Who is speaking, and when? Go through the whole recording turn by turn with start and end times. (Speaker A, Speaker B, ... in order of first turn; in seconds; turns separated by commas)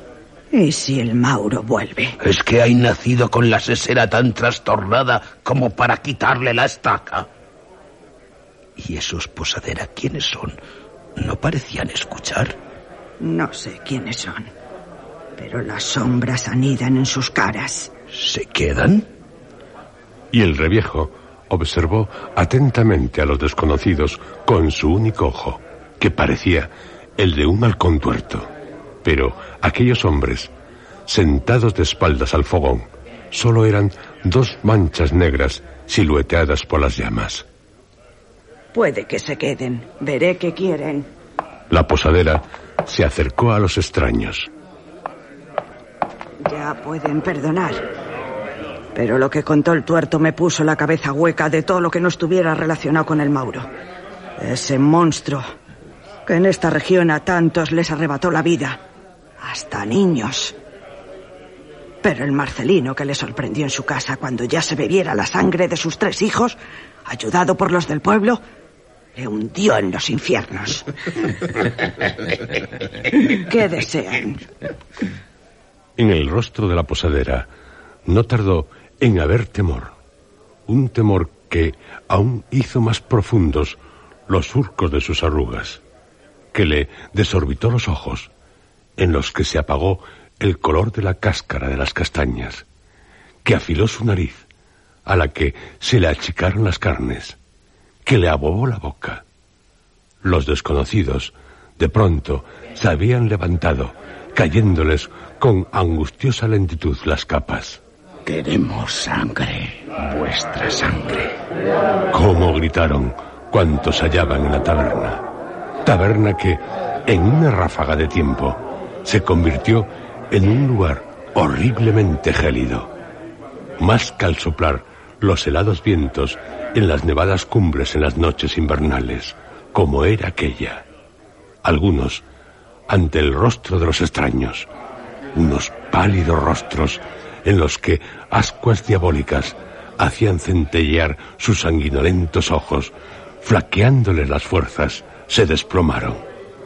Speaker A: 0.5-2.2, Speaker B: 2.2-7.3, Speaker B: 8.8-10.6, Speaker B: 11.2-12.6, Speaker A: 13.2-14.5, Speaker A: 15.4-17.9, Speaker B: 18.1-19.1, Speaker C: 20.3-28.5, Speaker C: 29.0-30.5, Speaker C: 31.1-37.5, Speaker A: 38.7-41.1, Speaker C: 41.7-44.5, Speaker A: 46.5-47.9, Speaker A: 49.0-53.7, Speaker A: 54.4-55.5, Speaker A: 56.2-58.8, Speaker A: 59.4-60.6, Speaker A: 62.0-68.4, Speaker A: 69.2-70.9, Speaker A: 73.1-74.4, Speaker C: 76.0-77.5, Speaker C: 78.1-80.0, Speaker C: 80.7-85.8, Speaker C: 86.5-88.3, Speaker C: 89.0-92.7, Speaker C: 93.5-94.5, Speaker C: 95.1-97.4, Speaker C: 98.0-99.2, Speaker C: 100.2-107.8, Speaker D: 108.2-111.2, Speaker C: 112.1-115.2, Speaker C: 115.8-122.9, Speaker C: 123.8-130.8, Speaker C: 131.6-132.2, Speaker C: 132.9-134.7, Speaker C: 135.3-146.2